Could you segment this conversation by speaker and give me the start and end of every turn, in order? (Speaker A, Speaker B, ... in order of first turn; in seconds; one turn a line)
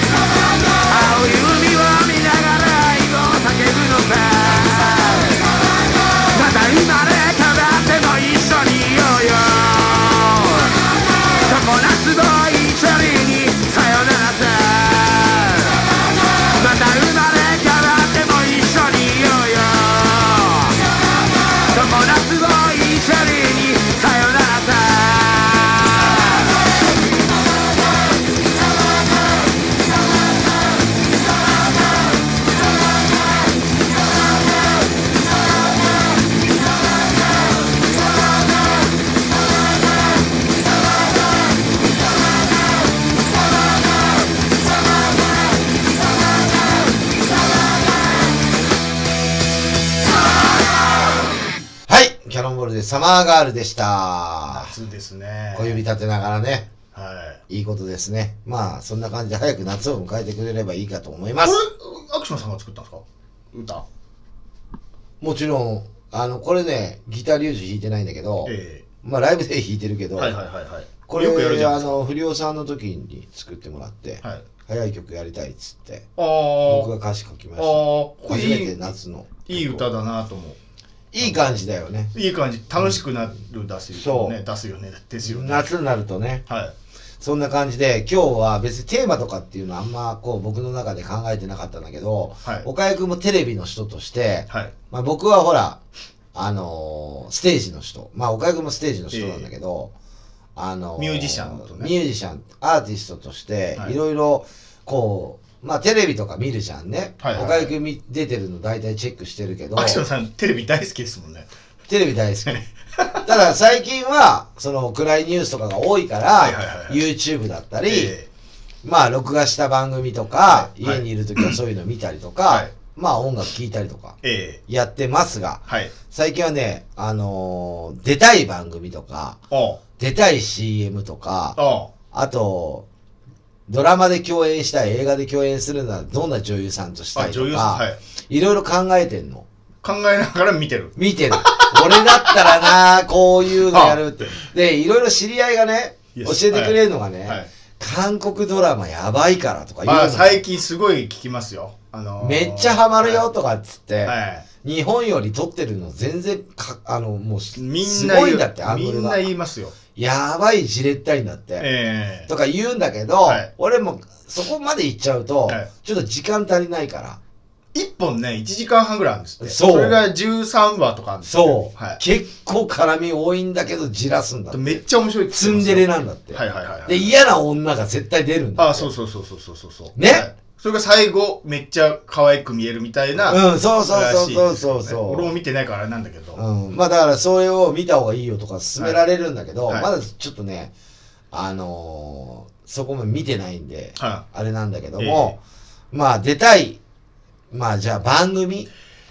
Speaker A: 0.9-5.5
Speaker A: 6.3-10.8
Speaker A: 11.4-15.9
Speaker A: 16.5-20.8
Speaker A: 21.7-26.6
Speaker B: 51.9-54.7
Speaker C: 54.5-55.8
Speaker B: 55.5-56.7
Speaker C: 56.9-57.4
Speaker B: 57.5-61.6
Speaker C: 61.4-63.8
Speaker B: 65.2-70.4
Speaker C: 68.4-68.8
Speaker C: 70.2-72.0
Speaker B: 71.1-76.0
Speaker C: 76.2-76.9
Speaker B: 76.6-79.9
Speaker C: 77.6-78.8
Speaker C: 79.5-80.6
Speaker B: 81.1-82.1
Speaker C: 81.2-81.5
Speaker C: 82.1-85.7
Speaker B: 83.9-84.4
Speaker B: 85.2-86.4
Speaker C: 86.5-86.7
Speaker B: 87.2-95.8
Speaker B: 96.3-99.9
Speaker C: 99.1-99.5
Speaker B: 100.5-110.0
Speaker C: 101.0-101.9
Speaker C: 107.2-107.7
Speaker C: 109.7-111.5
Speaker B: 111.9-112.6
Speaker C: 112.5-113.3
Speaker B: 113.2-118.1
Speaker C: 116.4-117.0
Speaker C: 117.8-118.3
Speaker B: 118.8-129.4
Speaker C: 120.5-121.6
Speaker C: 124.2-124.6
Speaker C: 125.7-125.9
Speaker C: 129.5-129.8
Speaker B: 130.0-131.6
Speaker C: 131.6-131.9
Speaker B: 132.1-132.8
Speaker B: 133.7-139.4
Speaker C: 137.1-138.0
Speaker C: 139.8-142.8
Speaker B: 140.9-150.4
Speaker C: 143.7-144.3
Speaker C: 146.1-147.5
Speaker C: 149.8-153.3
Speaker B: 152.2-159.3
Speaker C: 154.0-154.4
Speaker C: 157.6-159.7
Speaker B: 159.9-161.7
Speaker C: 161.6-162.3
Speaker B: 162.3-167.2
Speaker C: 163.2-163.5
Speaker C: 167.7-172.0
Speaker B: 169.4-170.0
Speaker B: 171.2-178.9
Speaker C: 174.5-177.1
Speaker C: 178.6-186.4
Speaker B: 179.9-180.3
Speaker B: 183.2-185.3
Speaker B: 186.3-190.7
Speaker B: 191.3-195.4
Speaker C: 194.0-194.2
Speaker C: 195.0-195.4
Speaker B: 195.9-196.8
Speaker B: 197.5-198.7